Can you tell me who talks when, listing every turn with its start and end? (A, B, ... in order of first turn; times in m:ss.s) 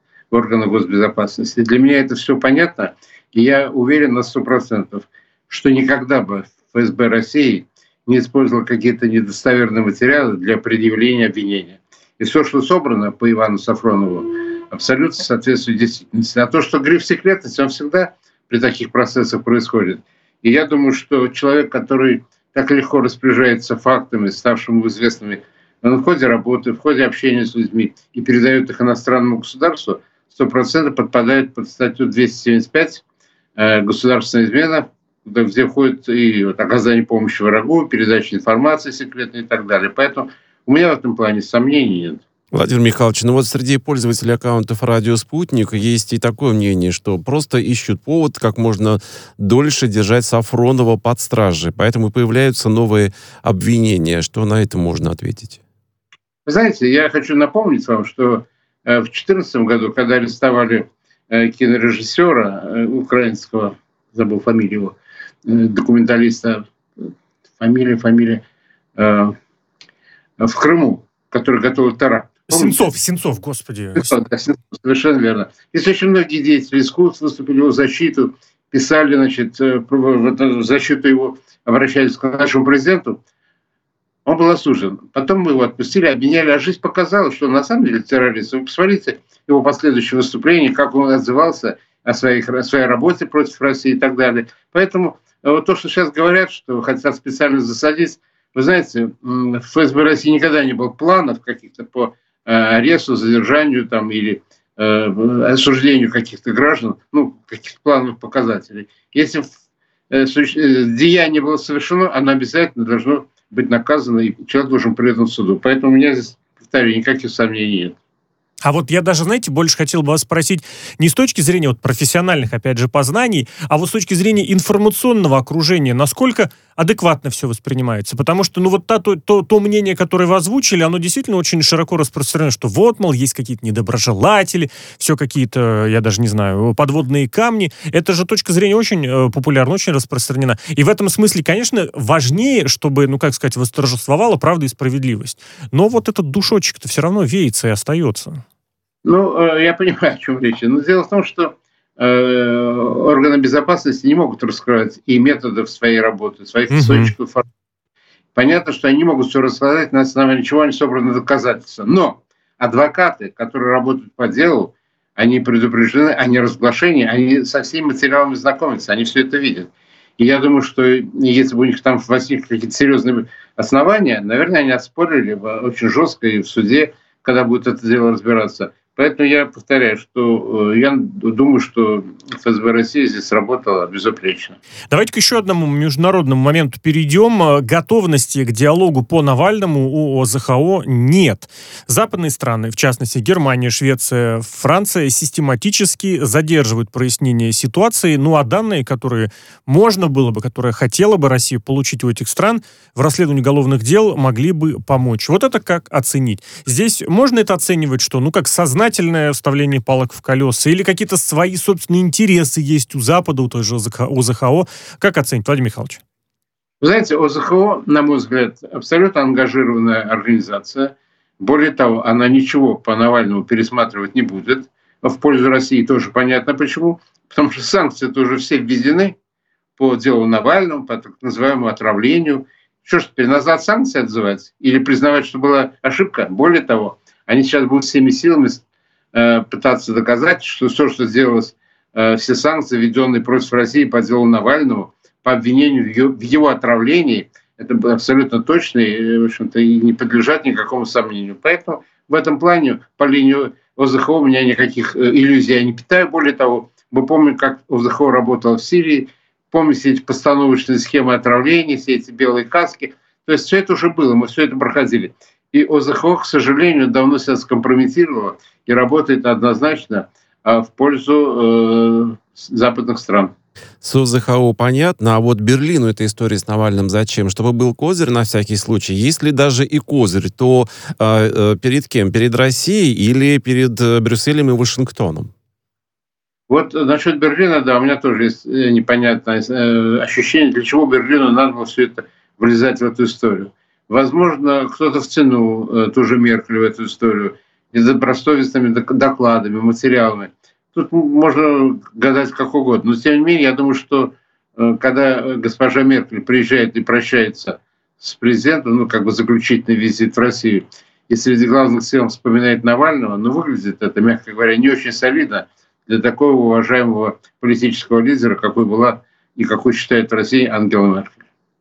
0:00.3-0:33.0 A
0:33.6-0:42.2 A
0:42.5-0:55.6 B
0:56.5-1:07.1 A
1:07.6-1:08.4 A
1:09.0-1:09.4 A
1:10.4-1:12.8 A
1:12.5-1:14.2 C
1:14.0-1:23.2 A
1:24.3-1:49.5 A
1:50.1-1:58.0 A
1:58.6-2:28.4 C
2:29.0-2:37.4 A
2:36.7-2:37.1 C
2:38.4-3:04.6 A
3:04.9-3:36.0 C
3:36.8-3:49.2 A
3:49.8-3:58.6 A
3:59.1-4:33.3 A
4:33.8-4:45.3 B
4:46.5-5:21.2 A